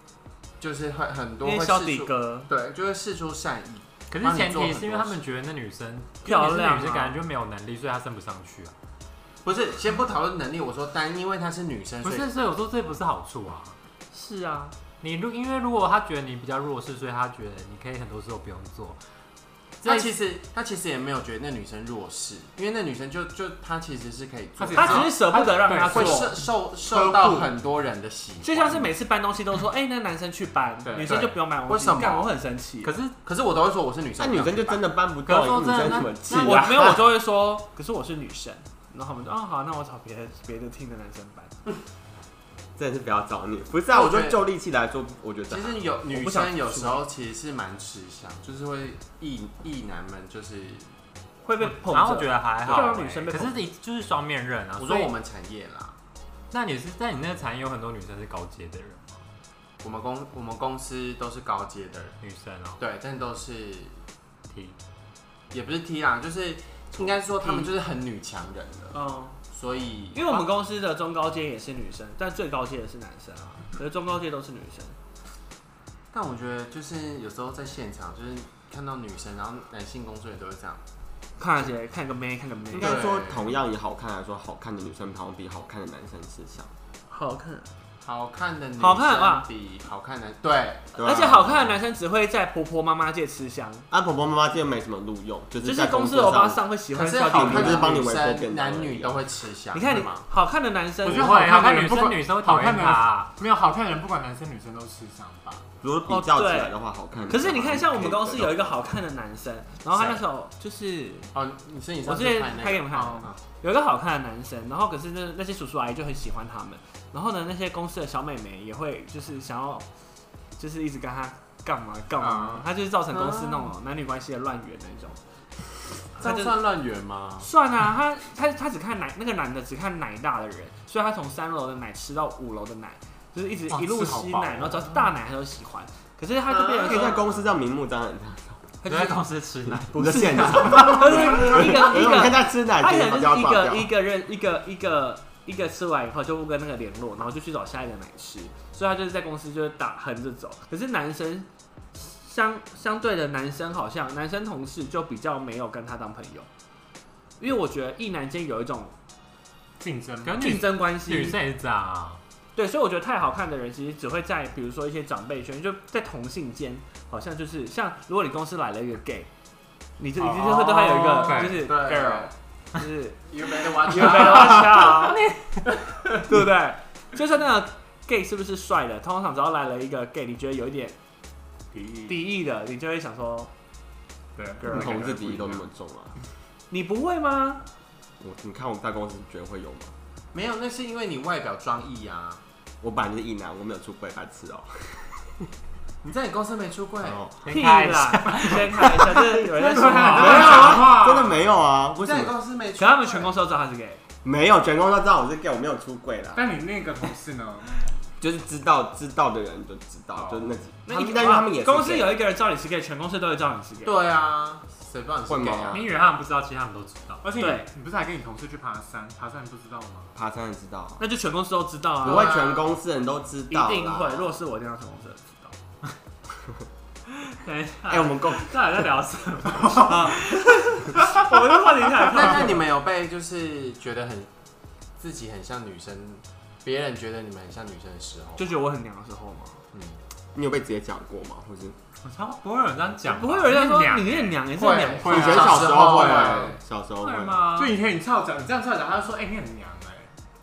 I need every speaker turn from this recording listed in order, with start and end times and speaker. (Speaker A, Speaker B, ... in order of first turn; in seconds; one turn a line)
Speaker A: 0.6-5.2
Speaker B: 1.4-2.5
Speaker C: 4.1-8.7
Speaker B: 6.2-7.2
Speaker A: 9.4-12.3
Speaker C: 12.0-13.8
Speaker B: 14.1-14.8
Speaker C: 15.0-19.0
Speaker A: 19.8-25.1
Speaker C: 19.8-20.1
Speaker D: 24.6-27.5
Speaker B: 24.8-26.3
Speaker A: 25.9-28.9
Speaker B: 28.4-32.9
Speaker D: 30.8-31.3
Speaker A: 31.0-32.3
Speaker C: 32.8-33.2
Speaker A: 33.2-34.8
Speaker E: 34.2-37.0
Speaker C: 35.2-36.6
Speaker B: 36.3-41.5
Speaker E: 42.8-45.9
Speaker A: 43.9-44.4
Speaker A: 45.5-50.9
Speaker B: 46.1-47.0
Speaker B: 51.4-53.6
Speaker C: 51.6-55.1
Speaker A: 52.7-52.9
Speaker A: 54.8-56.0
Speaker C: 56.5-59.2
Speaker A: 59.8-62.2
Speaker C: 62.2-62.8
Speaker A: 62.8-64.0
Speaker C: 64.5-64.8
Speaker A: 65.5-69.0
Speaker B: 67.4-67.7
Speaker B: 68.9-69.4
Speaker A: 69.5-70.5
Speaker B: 70.1-75.0
Speaker A: 76.1-80.8
Speaker B: 81.4-83.0
Speaker E: 82.7-86.7
Speaker A: 82.8-83.5
Speaker B: 87.1-87.7
Speaker A: 88.0-90.9
Speaker B: 88.8-89.5
Speaker E: 91.0-91.8
Speaker B: 91.0-93.9
Speaker E: 93.9-96.6
Speaker B: 95.6-98.0
Speaker A: 96.9-100.2
Speaker E: 97.3-99.2
Speaker B: 99.7-101.4
Speaker D: 101.0-105.7
Speaker C: 101.1-103.3
Speaker E: 105.8-108.8
Speaker B: 106.1-106.8
Speaker B: 107.3-111.3
Speaker A: 111.3-113.4
Speaker B: 112.0-119.9
Speaker D: 113.0-113.3
Speaker B: 120.6-125.2
Speaker D: 122.2-122.7
Speaker A: 123.1-123.7
Speaker A: 126.2-127.5
Speaker B: 126.2-126.6
Speaker B: 127.4-137.2
Speaker D: 133.7-135.1
Speaker E: 136.6-138.6
Speaker B: 138.8-139.2
Speaker C: 138.8-140.9
Speaker E: 139.9-143.9
Speaker B: 139.9-156.5
Speaker B: 157.4-159.0
Speaker D: 159.8-160.6
Speaker C: 160.2-162.2
Speaker B: 160.4-161.4
Speaker B: 162.6-169.3
Speaker B: 170.0-175.2
Speaker D: 170.2-171.6
Speaker C: 171.3-171.5
Speaker A: 171.4-172.3
Speaker A: 173.3-174.7
Speaker C: 175.1-175.4
Speaker B: 176.2-181.0
Speaker D: 181.7-182.2
Speaker B: 182.1-183.5
Speaker D: 184.4-185.6
Speaker B: 184.6-185.4
Speaker E: 184.7-186.1
Speaker B: 186.7-187.6
Speaker E: 188.2-189.9
Speaker A: 190.3-192.4
Speaker E: 192.8-195.5
Speaker A: 196.0-197.2
Speaker E: 197.0-197.4
Speaker C: 197.4-198.9
Speaker B: 197.5-200.8
Speaker D: 199.6-201.5
Speaker E: 200.0-202.3
Speaker A: 200.2-200.9
Speaker A: 202.0-203.3
Speaker B: 202.8-204.0
Speaker E: 204.2-206.5
Speaker D: 206.3-207.8
Speaker E: 208.2-212.2
Speaker D: 210.2-210.6
Speaker B: 210.9-214.0
Speaker A: 213.8-215.8
Speaker E: 215.3-215.9
Speaker C: 215.7-217.2
Speaker D: 217.2-220.2
Speaker B: 217.4-217.7
Speaker E: 220.2-221.0
Speaker B: 221.0-222.3
Speaker E: 222.0-224.3
Speaker A: 222.0-222.7
Speaker B: 223.5-225.6
Speaker C: 227.3-230.4
Speaker E: 227.9-228.6
Speaker D: 229.6-229.9
Speaker B: 229.8-232.6
Speaker A: 232.1-234.3
Speaker A: 235.0-238.5
Speaker B: 238.4-239.6
Speaker E: 240.3-241.8
Speaker C: 242.0-244.5
Speaker B: 243.1-245.5
Speaker A: 244.5-246.6
Speaker D: 245.0-246.4
Speaker E: 245.0-247.4
Speaker C: 247.0-247.7
Speaker D: 247.5-250.1